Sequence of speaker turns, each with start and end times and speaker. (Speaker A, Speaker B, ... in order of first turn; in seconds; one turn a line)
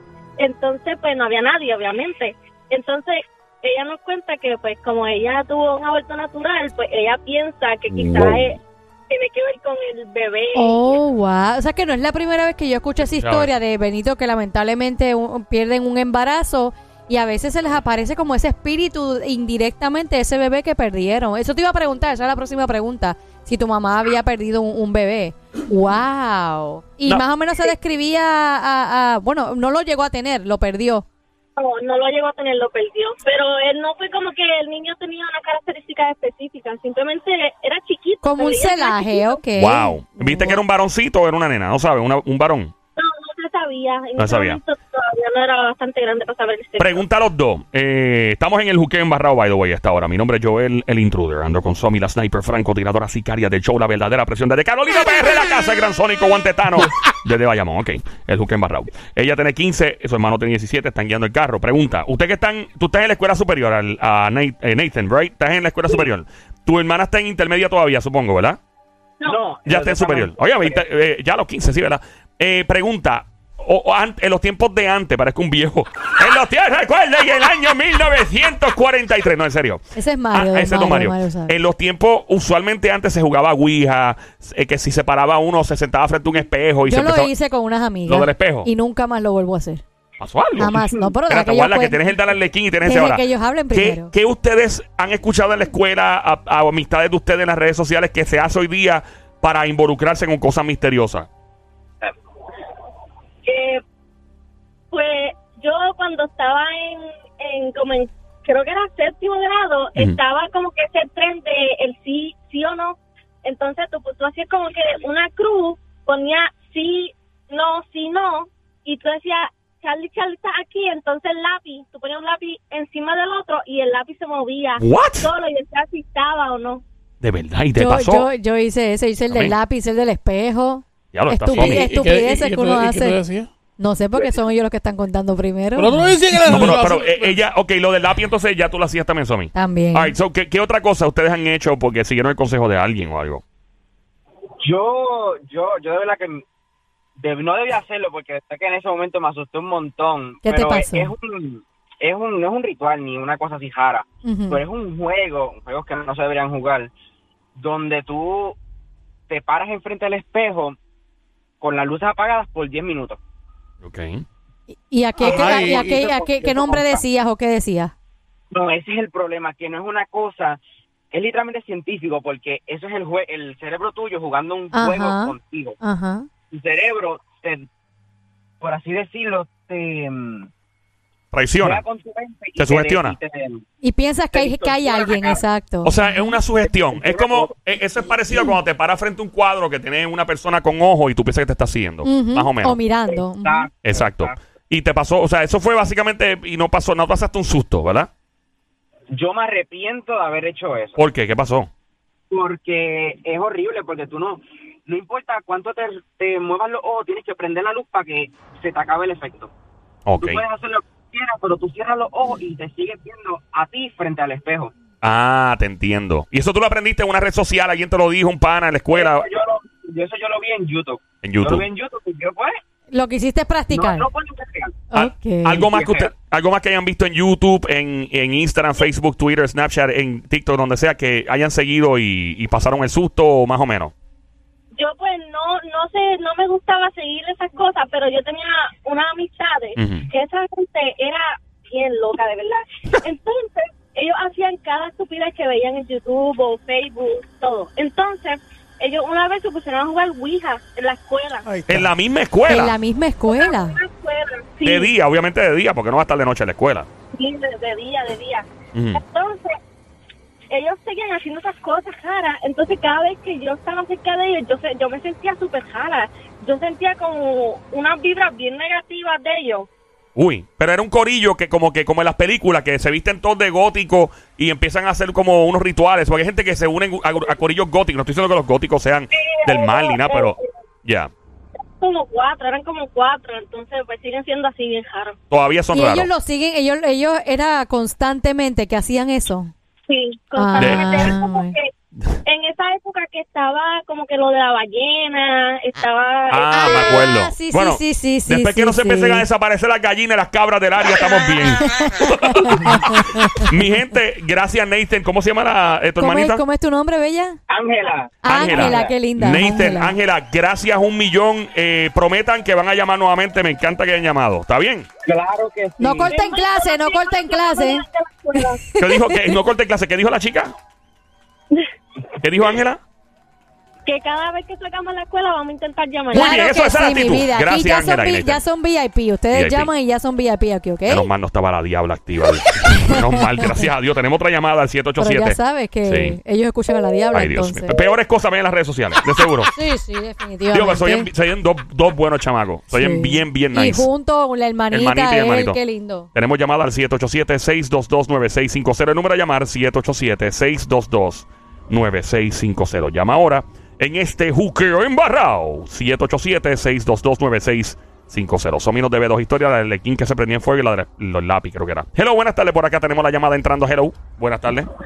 Speaker A: 0.4-11.0
Speaker B: 7.9-8.6
Speaker C: 10.5-31.1
Speaker B: 13.0-13.5
Speaker A: 31.6-39.4
Speaker C: 38.2-40.6
Speaker B: 39.6-42.7
Speaker A: 43.0-47.0
Speaker B: 44.2-44.6
Speaker B: 46.8-68.6
Speaker D: 69.2-70.8
Speaker B: 69.7-87.3
Speaker C: 80.0-81.6
Speaker C: 86.9-89.8
Speaker B: 88.1-88.7
Speaker B: 90.2-101.3
Speaker C: 90.6-92.0
Speaker C: 92.8-94.1
Speaker A: 103.4-103.8
Speaker A: 104.9-126.8
Speaker B: 124.8-125.3
Speaker B: 127.2-128.3
Speaker C: 127.8-133.2
Speaker B: 131.1-131.9
Speaker E: 131.5-133.5
Speaker C: 133.8-136.2
Speaker E: 135.8-137.4
Speaker B: 136.5-143.4
Speaker C: 139.5-140.2
Speaker D: 144.6-146.4
Speaker D: 147.2-156.9
Speaker C: 150.4-151.1
Speaker C: 154.2-154.6
Speaker D: 157.6-158.6
Speaker D: 159.3-160.8
Speaker D: 161.6-163.2
Speaker B: 163.8-164.2
Speaker C: 164.8-167.9
Speaker E: 165.2-166.0
Speaker D: 165.2-167.0
Speaker D: 168.5-170.6
Speaker D: 171.1-175.8
Speaker C: 174.7-176.3
Speaker D: 176.5-177.7
Speaker D: 178.6-180.5
Speaker B: 181.3-181.8
Speaker D: 181.6-183.6
Speaker B: 182.6-183.2
Speaker C: 183.8-186.4
Speaker D: 184.3-185.4
Speaker B: 185.8-192.8
Speaker D: 186.6-187.6
Speaker C: 192.1-193.7
Speaker D: 193.4-194.4
Speaker B: 193.8-198.1
Speaker D: 199.1-201.0
Speaker B: 201.0-201.7
Speaker D: 202.3-209.5
Speaker B: 210.1-210.4
Speaker D: 210.2-214.7
Speaker B: 215.0-219.3
Speaker D: 218.9-222.6
Speaker B: 221.2-221.7
Speaker C: 222.9-224.1
Speaker D: 223.7-224.8
Speaker C: 224.9-225.7
Speaker B: 224.9-233.9
Speaker D: 225.7-226.1
Speaker A: 234.7-251.5
Speaker B: 239.8-240.1
Speaker E: 251.4-251.9
Speaker B: 251.7-252.8
Speaker C: 252.5-253.8
Speaker A: 253.4-254.9
Speaker B: 254.7-256.9
Speaker A: 257.1-259.6
Speaker B: 258.7-259.0
Speaker A: 260.5-269.7
Speaker B: 270.2-281.1
Speaker A: 279.1-280.5
Speaker A: 281.8-285.2
Speaker B: 285.3-286.1
Speaker C: 285.7-289.5
Speaker A: 289.9-291.7
Speaker C: 290.4-291.6
Speaker B: 290.6-291.1
Speaker A: 292.3-296.8
Speaker B: 296.3-306.4
Speaker C: 296.5-299.2
Speaker C: 301.6-303.5
Speaker C: 306.0-307.4
Speaker D: 307.5-308.9
Speaker C: 308.2-309.9
Speaker B: 308.3-314.9
Speaker D: 315.1-316.1
Speaker C: 315.8-319.3
Speaker A: 316.1-318.6
Speaker B: 318.8-320.6
Speaker B: 322.2-322.8
Speaker A: 323.9-326.4
Speaker B: 326.1-328.4
Speaker C: 326.1-331.1
Speaker B: 329.3-329.7
Speaker B: 330.9-336.2
Speaker C: 332.7-333.7
Speaker C: 335.0-337.8
Speaker B: 337.1-339.5
Speaker C: 339.5-341.1
Speaker B: 340.5-343.9
Speaker C: 342.7-346.1
Speaker B: 344.7-345.6
Speaker B: 346.1-364.7